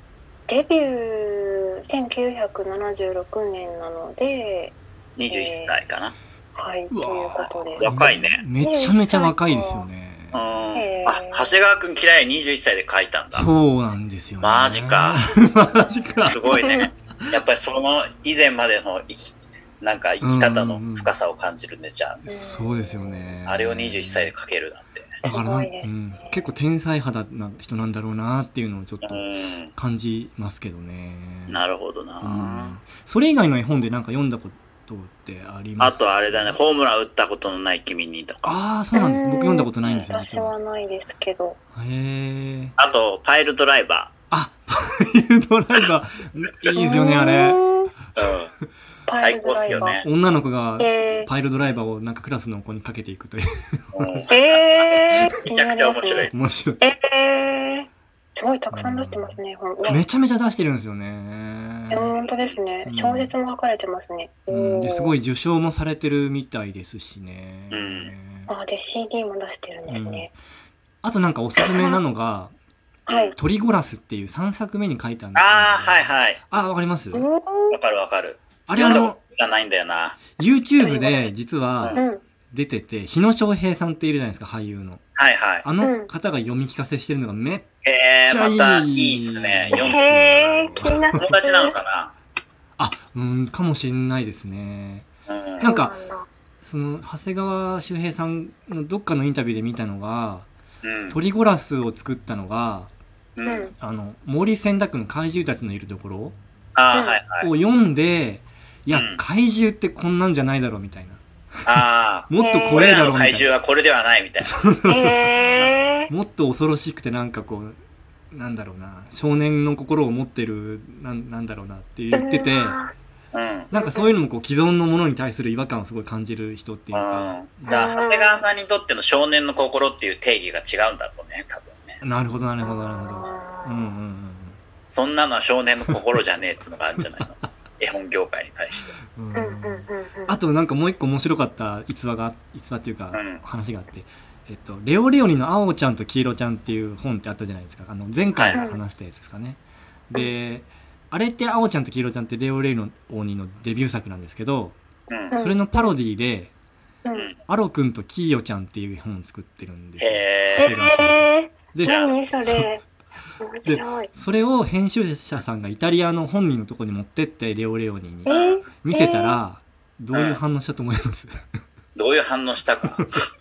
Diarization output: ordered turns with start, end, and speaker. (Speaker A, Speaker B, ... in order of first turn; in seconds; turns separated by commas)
Speaker A: 0.5-4.8, Speaker B: 5.2-6.1, Speaker A: 5.3-5.8, Speaker A: 6.5-8.0, Speaker C: 6.9-10.4, Speaker B: 7.8-8.4, Speaker A: 8.6-9.9, Speaker B: 10.3-13.5, Speaker A: 10.7-11.6, Speaker C: 13.3-16.4, Speaker B: 14.4-15.3, Speaker B: 16.2-22.2, Speaker A: 16.4-16.9, Speaker C: 20.2-21.1, Speaker A: 22.2-23.3, Speaker C: 22.2-24.3, Speaker B: 23.4-25.2, Speaker A: 25.2-26.3, Speaker C: 25.2-29.2, Speaker B: 29.0-29.7, Speaker C: 29.8-31.6, Speaker B: 31.5-32.8, Speaker C: 32.2-36.6, Speaker B: 35.8-38.5, Speaker C: 38.4-40.5, Speaker A: 38.9-41.6, Speaker B: 39.8-40.1, Speaker C: 41.8-42.8, Speaker B: 42.8-44.1, Speaker C: 44.3-48.1, Speaker A: 46.8-47.9, Speaker B: 48.2-48.5, Speaker A: 49.1-49.9, Speaker B: 49.1-50.1, Speaker C: 49.7-54.3, Speaker A: 50.8-51.3, Speaker B: 53.9-56.3, Speaker A: 54.3-60.0, Speaker C: 56.3-56.8, Speaker C: 58.7-62.1, Speaker A: 61.9-65.2, Speaker B: 62.3-62.6, Speaker C: 62.8-63.3, Speaker C: 64.5-68.5, Speaker B: 67.7-68.2, Speaker A: 68.5-70.3, Speaker C: 69.9-70.3, Speaker C: 71.0-72.5, Speaker A: 71.6-71.9, Speaker A: 73.1-73.3, Speaker B: 73.1-73.4, Speaker C: 73.3-77.3, Speaker B: 75.3-76.4, Speaker A: 77.1-77.8, Speaker B: 77.7-80.3, Speaker C: 78.7-79.2, Speaker C: 80.4-82.0, Speaker A: 80.8-81.3, Speaker A: 81.9-82.2, Speaker C: 82.5-85.0, Speaker B: 85.2-85.7, Speaker C: 85.6-87.7, Speaker A: 85.8-86.1, Speaker B: 87.8-90.0, Speaker C: 88.2-91.3, Speaker A: 89.7-91.8, Speaker B: 91.2-92.1, Speaker C: 92.8-95.1, Speaker B: 95.3-95.7, Speaker A: 95.6-96.3, Speaker C: 95.6-96.0, Speaker C: 96.6-100.5, Speaker B: 100.8-101.2, Speaker C: 101.1-102.9, Speaker B: 103.4-103.7, Speaker A: 103.5-103.7, Speaker C: 103.8-106.3, Speaker B: 106.8-107.5, Speaker A: 106.9-107.2, Speaker C: 107.4-111.2, Speaker B: 108.9-109.2, Speaker B: 111.7-114.6, Speaker C: 111.7-113.5, Speaker A: 112.4-112.9, Speaker C: 114.4-117.8, Speaker A: 114.9-116.1, Speaker C: 118.3-122.8, Speaker A: 122.1-122.9, Speaker B: 123.3-123.7, Speaker A: 123.7-124.2, Speaker C: 123.7-127.9, Speaker B: 126.9-132.0, Speaker A: 127.7-128.4, Speaker C: 132.0-134.6, Speaker A: 132.6-134.0, Speaker B: 134.8-138.9, Speaker C: 139.1-154.8, Speaker A: 139.3-140.4, Speaker B: 143.1-143.4, Speaker B: 148.3-148.6, Speaker A: 148.5-148.8, Speaker B: 155.1-155.3, Speaker A: 155.3-155.9, Speaker C: 155.3-156.5, Speaker A: 157.1-157.3, Speaker C: 157.5-162.7, Speaker B: 160.0-160.7, Speaker A: 160.5-162.8, Speaker B: 161.8-162.1, Speaker A: 163.4-164.1, Speaker C: 163.7-171.3, Speaker A: 168.3-169.4, Speaker B: 168.3-168.6, Speaker B: 170.1-170.4, Speaker B: 171.9-173.2